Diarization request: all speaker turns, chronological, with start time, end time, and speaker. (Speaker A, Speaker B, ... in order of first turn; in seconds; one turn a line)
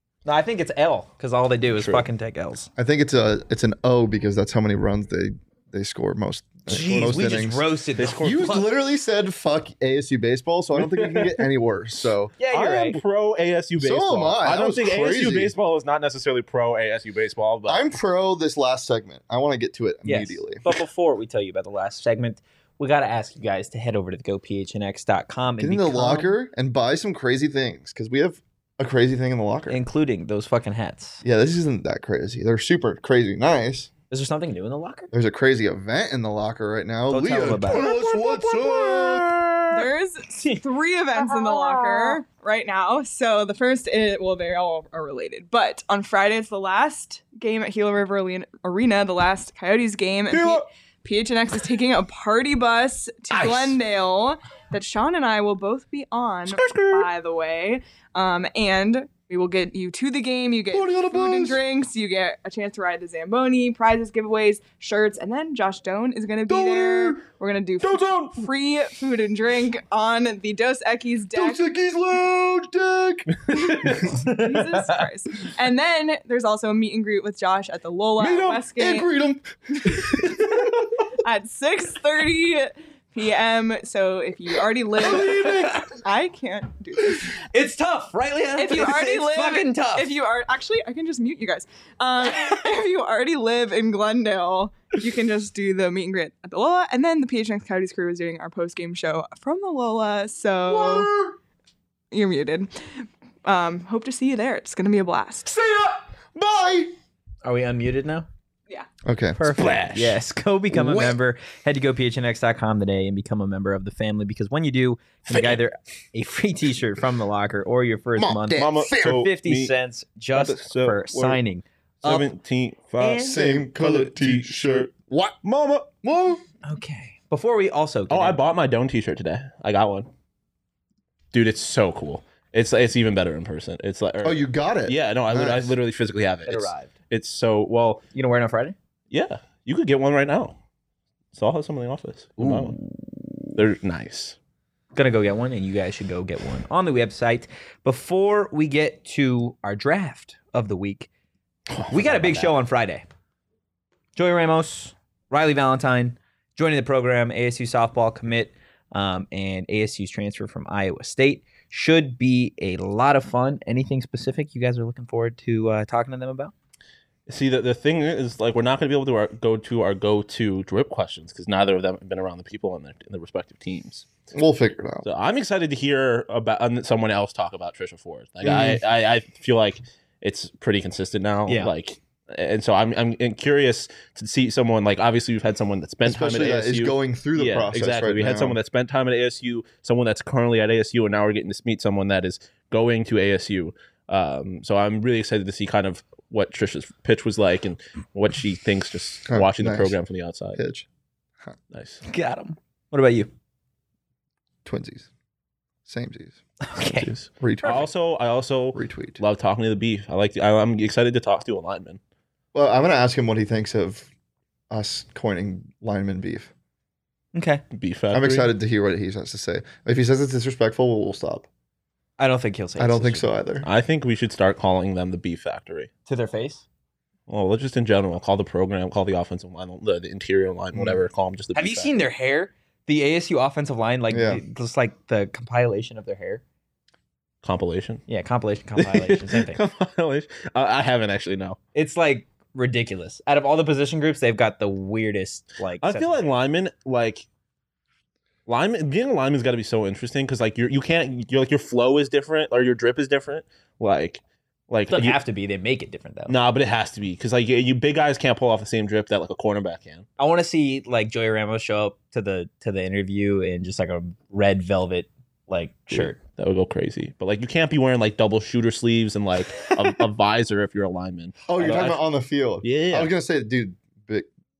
Speaker A: 0.2-2.7
Speaker B: 1.7-2.0
Speaker C: 2.8-7.7
Speaker A: 6.7-8.7
Speaker B: 8.0-8.6
Speaker C: 8.2-12.3
Speaker B: 10.8-11.4
Speaker A: 12.4-13.0
Speaker B: 12.5-17.9
Speaker C: 13.8-15.5
Speaker C: 17.7-20.6
Speaker A: 20.0-26.4
Speaker C: 25.6-29.8
Speaker A: 29.7-31.2
Speaker C: 31.2-33.9
Speaker A: 34.1-35.1
Speaker C: 35.1-39.3
Speaker A: 37.1-37.9
Speaker B: 37.7-39.7
Speaker D: 39.7-71.7
Speaker A: 40.3-40.6
Speaker A: 41.2-42.1
Speaker B: 50.3-50.6
Speaker B: 53.3-53.8
Speaker B: 56.5-57.1
Speaker C: 60.7-61.5
Speaker C: 66.5-67.2
Speaker B: 67.8-68.5
Speaker C: 71.3-73.3
Speaker B: 73.3-74.2
Speaker D: 73.5-79.1
Speaker A: 74.0-75.0
Speaker B: 78.2-78.5
Speaker C: 78.5-80.7
Speaker D: 79.8-87.3
Speaker C: 85.0-85.9
Speaker A: 87.5-90.1
Speaker D: 88.6-101.1
Speaker C: 100.7-101.3
Speaker D: 102.1-105.5
Speaker C: 105.5-106.9
Speaker A: 107.4-108.3
Speaker C: 109.0-109.4
Speaker A: 109.3-122.3
Speaker B: 109.5-110.2
Speaker C: 110.7-111.2
Speaker B: 115.3-115.6
Speaker C: 118.2-119.2
Speaker B: 118.5-119.7
Speaker B: 120.3-121.4
Speaker B: 122.0-125.9
Speaker A: 123.0-123.4
Speaker C: 123.2-125.3
Speaker C: 126.0-126.4
Speaker A: 126.6-128.4
Speaker B: 128.1-130.1
Speaker B: 131.3-138.0
Speaker C: 134.2-135.8
Speaker A: 136.4-136.9
Speaker A: 138.1-138.8
Speaker B: 139.1-140.6
Speaker B: 141.3-142.8
Speaker A: 142.4-143.3
Speaker B: 143.5-144.4
Speaker A: 144.9-151.1
Speaker B: 151.7-152.5
Speaker A: 151.9-153.1
Speaker A: 154.2-166.5
Speaker B: 167.3-174.1
Speaker C: 174.3-175.1
Speaker B: 175.0-200.6
Speaker C: 178.4-178.8
Speaker A: 181.5-181.7
Speaker C: 186.0-188.6
Speaker C: 199.3-199.9
Speaker C: 200.5-200.9
Speaker B: 201.7-202.0
Speaker A: 202.0-203.3
Speaker C: 204.6-205.1
Speaker C: 205.8-206.4
Speaker A: 206.7-207.1
Speaker B: 206.8-212.0
Speaker C: 206.9-207.9
Speaker C: 208.7-209.2
Speaker C: 212.5-214.1
Speaker C: 214.7-216.5
Speaker A: 217.3-217.6
Speaker B: 217.7-218.5
Speaker C: 218.1-221.5
Speaker A: 222.2-223.3
Speaker C: 222.8-223.7
Speaker B: 223.6-225.9
Speaker A: 226.1-226.6
Speaker B: 227.3-231.9
Speaker C: 230.7-231.0
Speaker A: 231.5-236.4
Speaker C: 234.1-234.4
Speaker B: 237.4-238.0
Speaker A: 238.1-239.6
Speaker B: 238.8-241.6
Speaker A: 241.7-246.2
Speaker B: 245.8-247.2
Speaker B: 248.5-255.2
Speaker A: 254.9-256.4
Speaker B: 256.3-260.1
Speaker A: 260.2-266.2
Speaker B: 265.9-272.0
Speaker C: 271.4-274.3
Speaker B: 272.6-273.1